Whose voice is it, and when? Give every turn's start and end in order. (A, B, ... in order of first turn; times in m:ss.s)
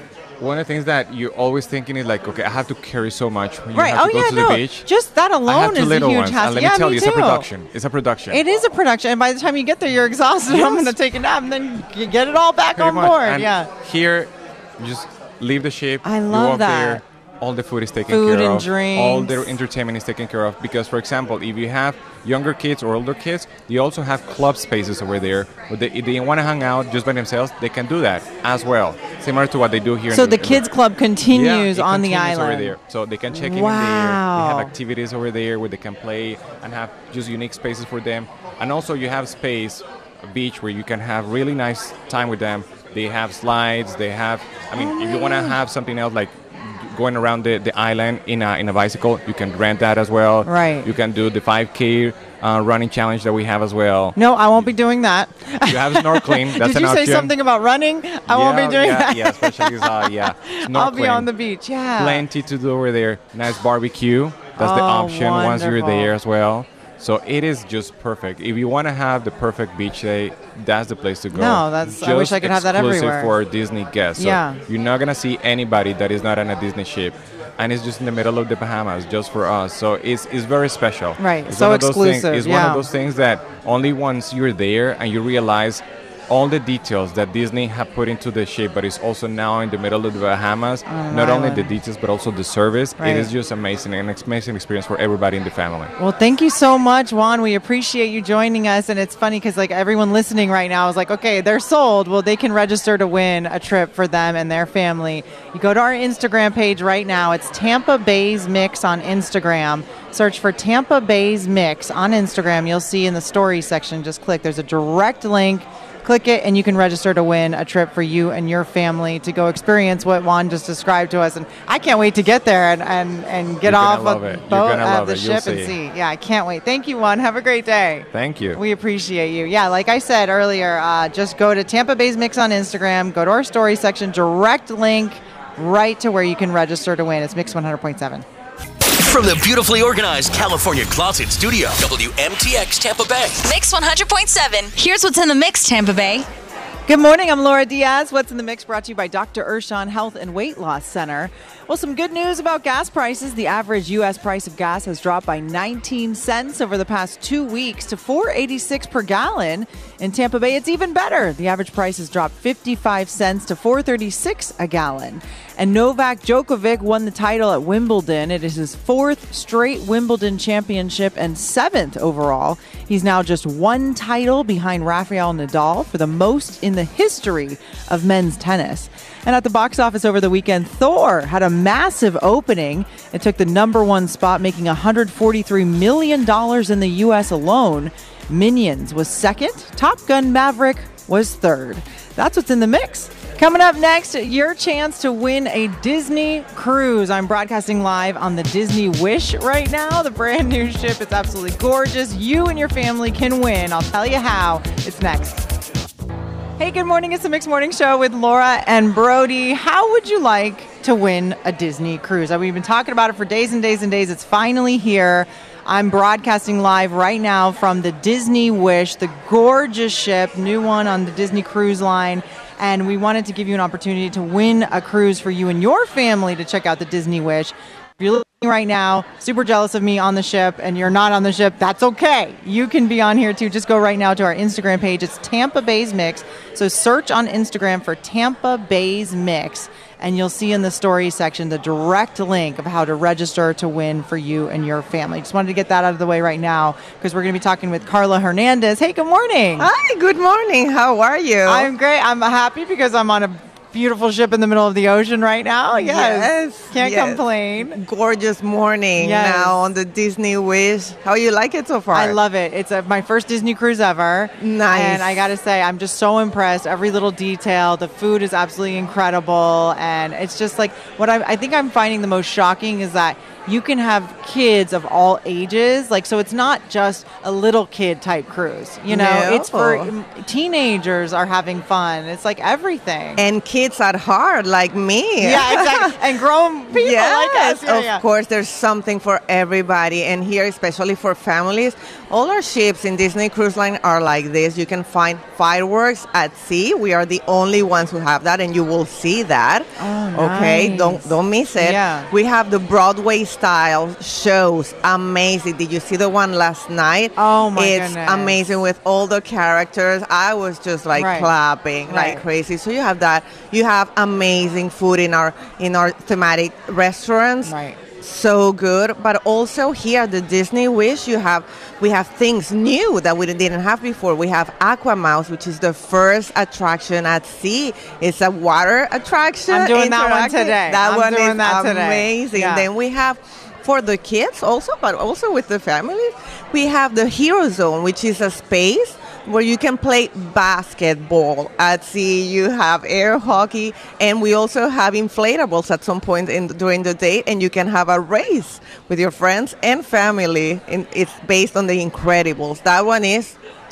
0:00.4-0:04.9 A
0:03.7-0:07.5 B
0:05.5-0:08.4 A
0:08.3-0:13.7 B
0:10.5-0:10.9 A
0:12.8-0:30.6 A
0:16.0-0:17.0 B
0:18.1-0:19.6 B
0:30.1-0:32.8 B
0:31.3-0:54.2 A
0:33.3-0:34.7 B
0:44.8-0:45.6 B
0:50.4-0:50.9 B
0:54.2-1:02.2 B
0:55.7-0:57.3 A
0:58.3-1:01.3 A
1:02.0-1:35.9 A
1:04.6-1:06.1 B
1:11.3-1:13.3 B
1:14.2-1:14.6 B
1:21.2-1:22.8 B
1:30.9-1:31.7 B
1:33.0-1:33.3 B
1:36.0-2:18.2 B
2:03.6-2:05.8 A
2:08.1-2:08.6 A
2:18.9-2:23.4 C
2:23.4-2:26.3 D
2:26.9-3:25.5 B
3:26.6-4:09.7 B
4:09.6-4:11.7 E
4:11.5-4:17.8 B
4:15.7-4:22.2 E
4:19.0-4:19.6 B
4:21.9-4:43.2 B
4:24.4-4:25.3 E
4:38.9-4:39.9 E
4:43.2-4:46.0 E
4:45.2-4:48.0 B
4:46.7-5:53.4 E
4:59.8-5:02.1 B
5:07.2-5:08.4 B
5:10.9-5:11.3 B
5:11.9-5:12.2 B
5:17.4-5:17.8 B
5:29.5-5:32.7 B